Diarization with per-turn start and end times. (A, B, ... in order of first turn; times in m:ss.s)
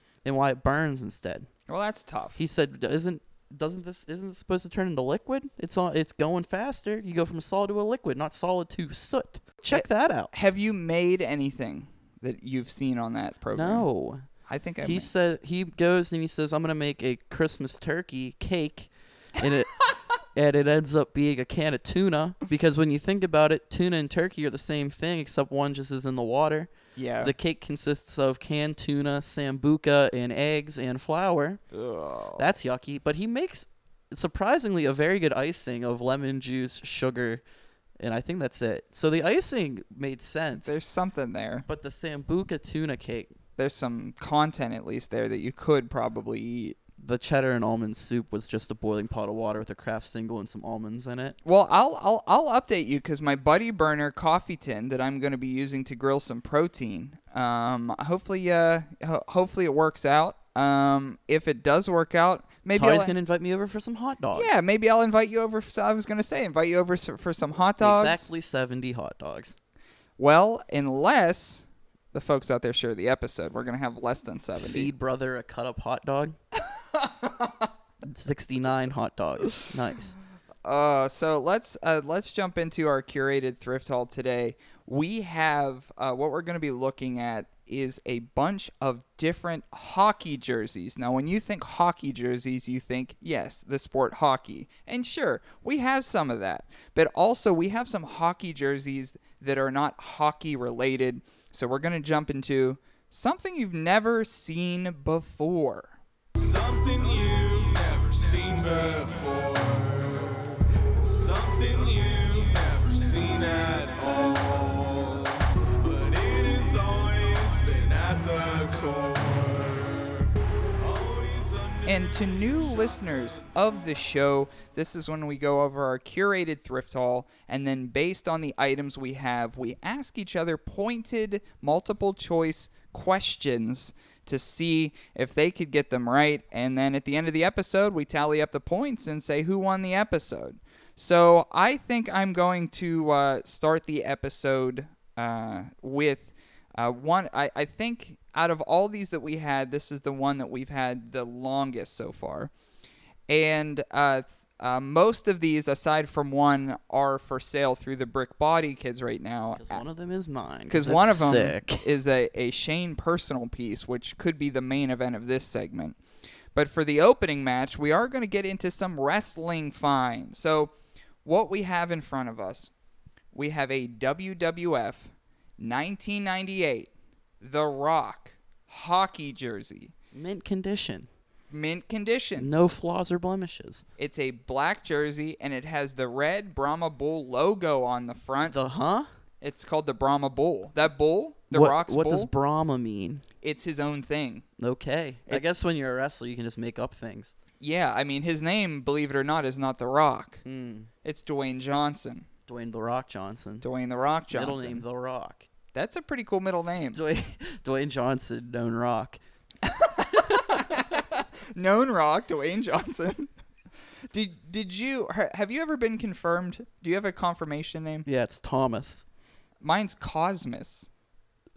0:00.2-0:01.5 A
0:01.7-0:02.4 B
0:02.4-0:10.3 A
0:09.7-0:13.8 B
0:13.5-0:14.3 A
0:14.5-0:15.1 B
0:14.8-0:31.6 A
0:27.0-0:27.3 B
0:31.7-0:32.5 B
0:32.4-0:37.4 A
0:38.0-0:40.8 A
0:40.6-0:41.6 B
0:41.7-0:43.3 A
0:43.6-0:46.8 B
0:47.0-0:51.4 A
0:51.4-1:03.1 B
1:02.7-1:04.6 A
1:04.3-1:08.3 B
1:07.8-1:09.6 A
1:10.2-1:14.9 B
1:14.6-1:16.4 A
1:16.9-1:17.7 B
1:18.0-1:20.1 A
1:20.6-1:46.0 B
1:46.4-2:03.4 C
2:01.8-2:32.5 B
2:33.3-2:39.8 B
2:39.6-2:41.9 A
2:40.7-2:46.0 B
2:46.5-2:50.7 B
2:51.2-2:52.7 B
2:53.3-2:59.9 B
3:00.1-3:01.1 A
3:01.5-3:02.5 B
3:02.4-3:03.8 A
3:04.0-3:08.6 B
3:08.5-3:09.1 A
3:09.4-3:12.3 B
3:11.5-3:13.2 A
3:13.4-3:14.4 B
3:14.6-3:17.3 A
3:17.6-3:20.4 B
3:20.4-3:20.9 A
3:21.0-3:22.2 B
3:22.5-3:23.6 A
3:23.6-3:24.8 B
3:24.3-3:25.5 A
3:25.7-3:27.0 B
3:26.9-3:29.2 A
3:29.6-3:33.3 B
3:30.0-3:31.0 A
3:34.1-3:38.0 B
3:38.0-3:39.0 A
3:39.6-3:40.9 B